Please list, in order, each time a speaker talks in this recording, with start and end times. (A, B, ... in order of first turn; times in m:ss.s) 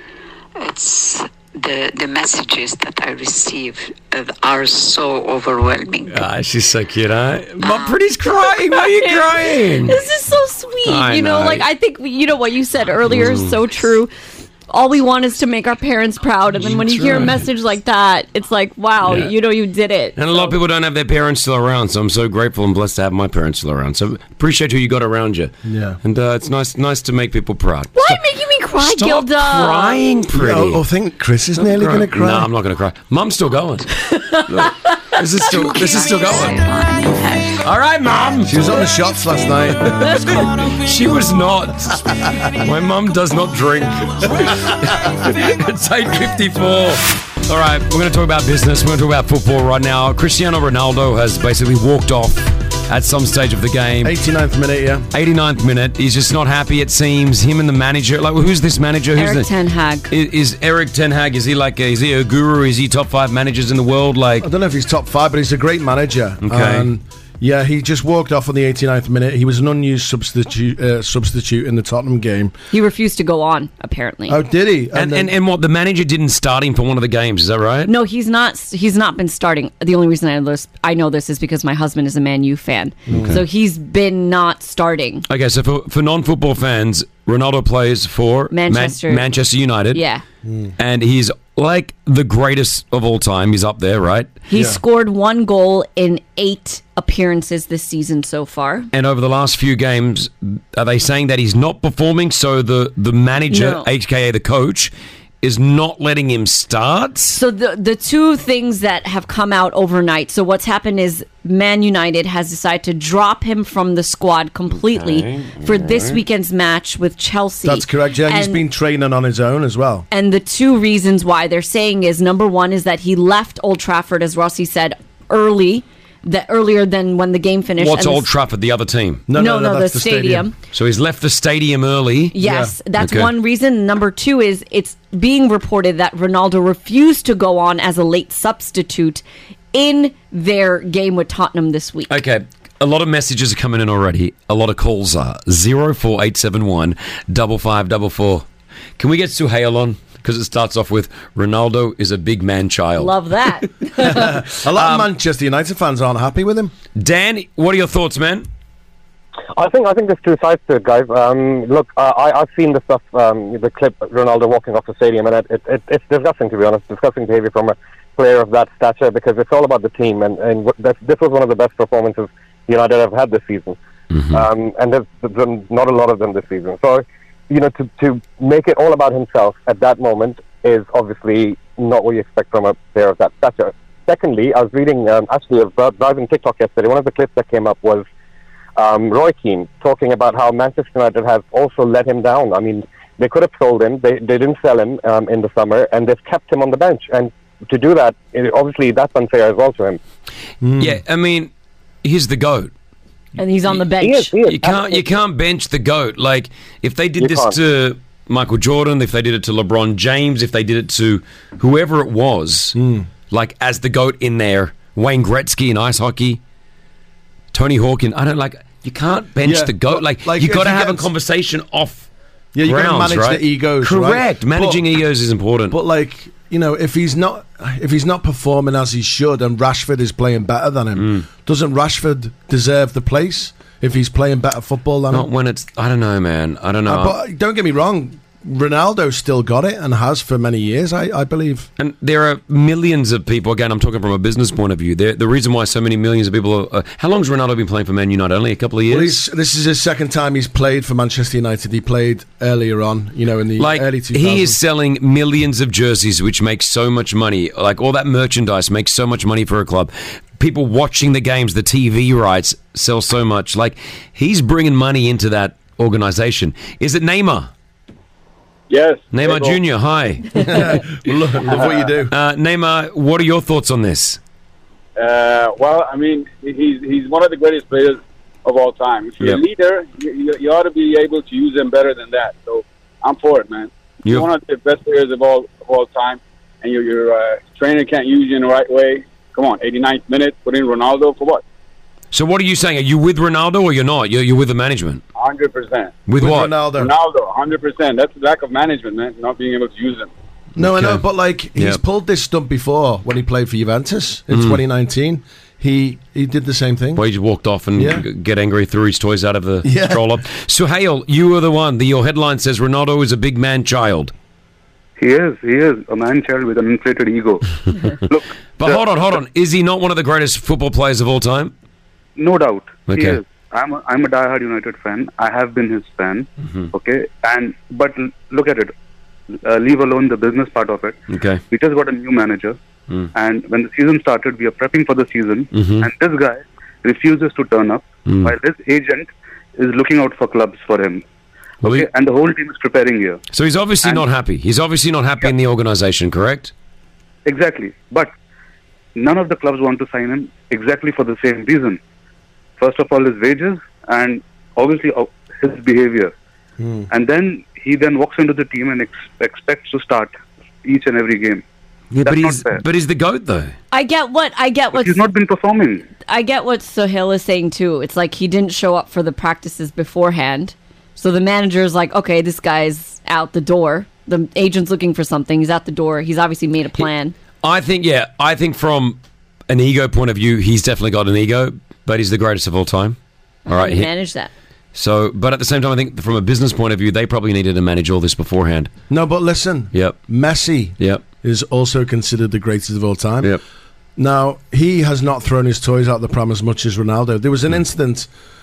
0:00.6-0:06.2 A
0:06.1-0:10.0 B
0:07.6-0:08.0 A
0:08.7-0:14.1 C
0:10.8-0:11.6 B
0:13.1-0:13.6 B
0:14.7-0:20.5 C
0:16.6-0:17.4 B
0:19.0-0:19.3 B
0:20.2-0:25.5 B
0:25.6-0:26.0 D
0:26.0-0:28.2 B
0:27.9-0:30.0 C
0:28.8-0:30.8 B
0:30.3-0:32.5 D
0:31.6-0:33.9 B
0:34.1-0:34.4 C
0:34.5-0:36.6 B
0:35.5-0:37.6 A
0:37.6-0:38.5 B
0:38.5-0:40.4 D
0:40.0-0:54.1 B
0:54.0-0:55.1 D
0:55.1-0:59.5 B
0:59.2-1:00.1 C
1:00.1-1:04.5 B
1:04.4-1:12.5 D
1:06.4-1:06.9 B
1:12.7-1:14.4 C
1:14.3-1:15.3 D
1:14.9-1:17.9 B
1:17.8-1:25.2 C
1:23.1-1:23.4 D
1:23.1-1:23.4 B
1:25.3-1:30.0 B
1:28.5-1:29.2 C
1:29.9-1:30.2 C
1:30.4-1:30.7 D
1:30.8-1:34.3 B
1:34.5-1:38.9 C
1:34.5-1:34.8 D
1:38.9-1:47.4 B
1:43.5-1:43.9 C
1:47.3-1:58.6 C
1:54.8-1:56.2 B
1:57.6-2:00.0 D
2:00.1-2:08.2 C
2:07.8-2:09.2 B
2:09.3-2:10.5 D
2:09.3-2:10.5 C
2:10.7-2:12.4 B
2:12.3-2:19.2 C
2:12.4-2:12.7 D
2:13.0-2:13.3 B
2:19.7-2:22.1 C
2:22.1-2:28.4 B
2:29.0-2:33.2 B
2:33.0-2:34.3 C
2:34.0-2:36.7 D
2:34.7-2:35.1 B
2:37.0-2:38.5 B
2:39.5-2:53.8 E
2:54.1-2:54.5 B
2:54.3-3:08.0 E
3:08.8-3:20.0 E
3:20.6-3:21.0 D
3:20.8-3:21.5 B
3:22.0-3:22.7 B
3:23.4-3:24.3 C
3:24.0-3:25.0 E
3:24.4-3:32.8 B
3:27.2-3:27.6 E
3:32.7-3:33.1 D
3:33.3-3:36.4 B
3:37.5-3:42.1 B
3:39.4-3:41.1 D
3:42.5-3:44.8 D
3:42.6-3:45.8 B
3:45.7-3:55.3 D
3:50.9-3:51.2 B
3:55.1-3:57.2 B
3:56.8-4:01.7 D
4:01.8-4:09.2 B
4:08.9-4:14.6 D
4:13.6-4:27.5 B
4:28.7-4:29.6 F
4:29.1-4:34.2 B
4:30.4-4:32.1 D
4:35.0-4:51.4 F
4:44.0-4:44.3 B
4:52.1-4:55.0 B
4:55.1-4:55.9 F
4:56.1-4:56.6 B
4:56.2-4:56.9 D
4:56.7-5:00.1 F
5:00.6-5:07.0 D
5:00.6-5:01.0 B
5:04.3-5:04.6 B
5:07.0-5:14.1 B
5:07.7-5:08.0 D
5:09.6-5:10.0 D
5:15.0-5:17.4 G
5:18.0-5:18.8 G
5:18.6-5:21.5 B
5:22.2-5:28.7 G
5:22.9-5:23.2 B
5:29.4-5:31.0 G
5:31.1-5:31.4 B
5:31.5-5:32.6 G
5:33.1-5:41.0 G
5:35.5-5:35.9 B
5:38.0-5:38.3 B
5:41.6-5:41.9 B
5:41.6-5:43.2 G
5:43.3-5:46.5 B
5:47.2-5:48.1 G
5:49.0-5:51.8 G
5:52.6-5:56.1 G
5:56.6-5:56.9 D
5:56.9-6:00.1 G
6:00.6-6:01.4 G
6:01.9-6:03.5 B
6:02.0-6:02.6 G
6:03.7-6:05.0 C
6:04.7-6:05.8 G
6:06.1-6:17.1 C
6:17.4-6:19.0 B
6:19.5-6:23.0 B
6:23.5-6:23.9 B
6:23.5-6:24.3 C
6:24.7-6:28.7 B
6:28.9-6:33.4 D
6:29.7-6:30.0 B
6:34.0-6:38.1 D